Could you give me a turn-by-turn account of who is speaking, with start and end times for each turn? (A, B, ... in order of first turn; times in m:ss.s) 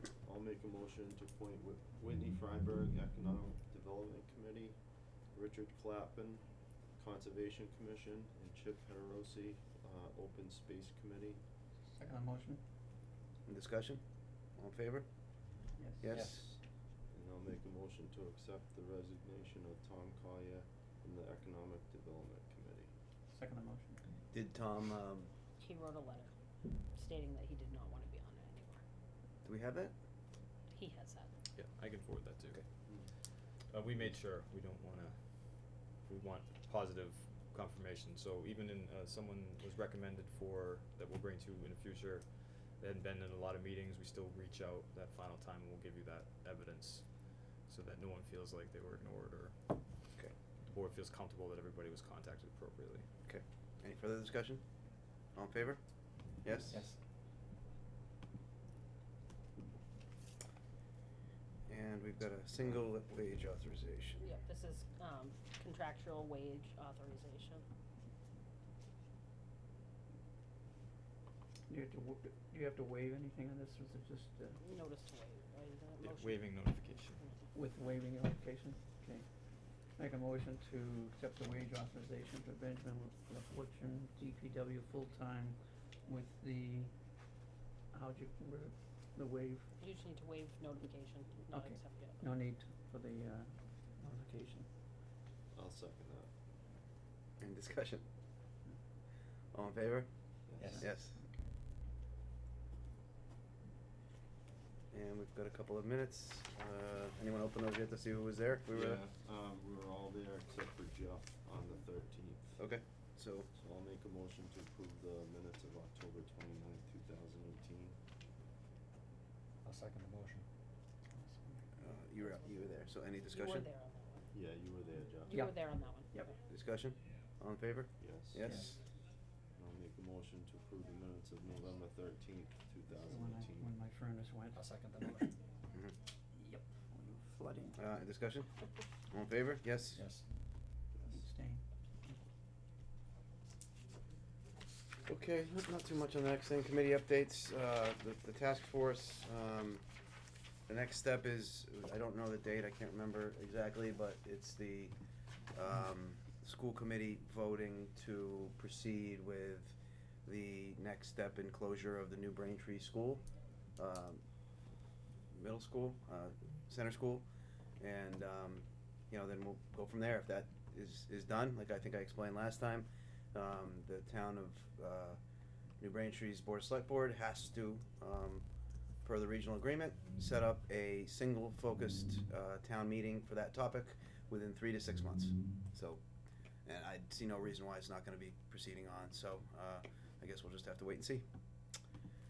0:00.2-0:04.8 A
0:05.3-0:06.4 A
0:07.0-0:11.4 A
0:11.9-0:12.6 B
0:13.4-0:14.0 C
0:14.6-0:15.0 C
0:15.8-0:16.1 B
0:16.0-0:16.5 C
0:17.1-0:22.9 A
0:23.3-0:24.0 B
0:24.3-0:25.3 C
0:25.6-0:26.3 D
0:26.9-0:28.8 D
0:29.4-0:29.9 C
0:30.7-0:31.3 D
0:31.5-0:32.6 E
0:33.7-0:49.6 E
0:50.6-0:53.1 E
0:53.2-0:54.6 C
0:55.4-0:55.8 C
0:56.4-0:56.8 C
0:56.7-0:57.0 F
1:01.7-1:04.2 C
1:04.2-1:07.6 D
1:11.7-1:14.6 B
1:14.6-1:16.6 D
1:16.0-1:17.2 E
1:17.5-1:19.3 B
1:20.0-1:26.9 B
1:27.9-1:29.7 B
1:29.8-1:32.3 D
1:31.4-1:34.7 B
1:35.5-1:36.3 A
1:37.4-1:38.0 C
1:39.5-1:40.1 C
1:40.5-1:40.8 A
1:40.7-1:41.2 B
1:40.7-1:41.2 C
1:44.9-1:49.0 C
1:48.7-1:52.6 A
1:52.6-1:53.5 C
1:53.5-1:58.0 A
1:59.6-2:00.4 F
2:01.1-2:01.7 B
2:01.8-2:03.7 C
2:01.8-2:02.7 D
2:03.2-2:04.3 D
2:04.3-2:05.4 A
2:05.3-2:06.3 D
2:05.3-2:06.3 B
2:06.5-2:08.8 C
2:08.0-2:08.5 A
2:09.6-2:13.8 A
2:13.0-2:14.6 B
2:14.5-2:15.3 F
2:16.3-2:17.8 B
2:17.8-2:18.5 C
2:19.1-2:20.0 C
2:20.0-2:20.2 F
2:20.9-2:21.2 A
2:21.2-2:22.2 B
2:25.1-2:29.8 C
2:30.7-2:35.0 C
2:35.5-2:43.2 C
2:43.8-2:44.2 C
2:45.3-2:47.2 C
2:47.8-2:55.2 C
2:55.8-2:58.4 C
2:59.0-3:06.0 C
3:06.6-3:11.2 C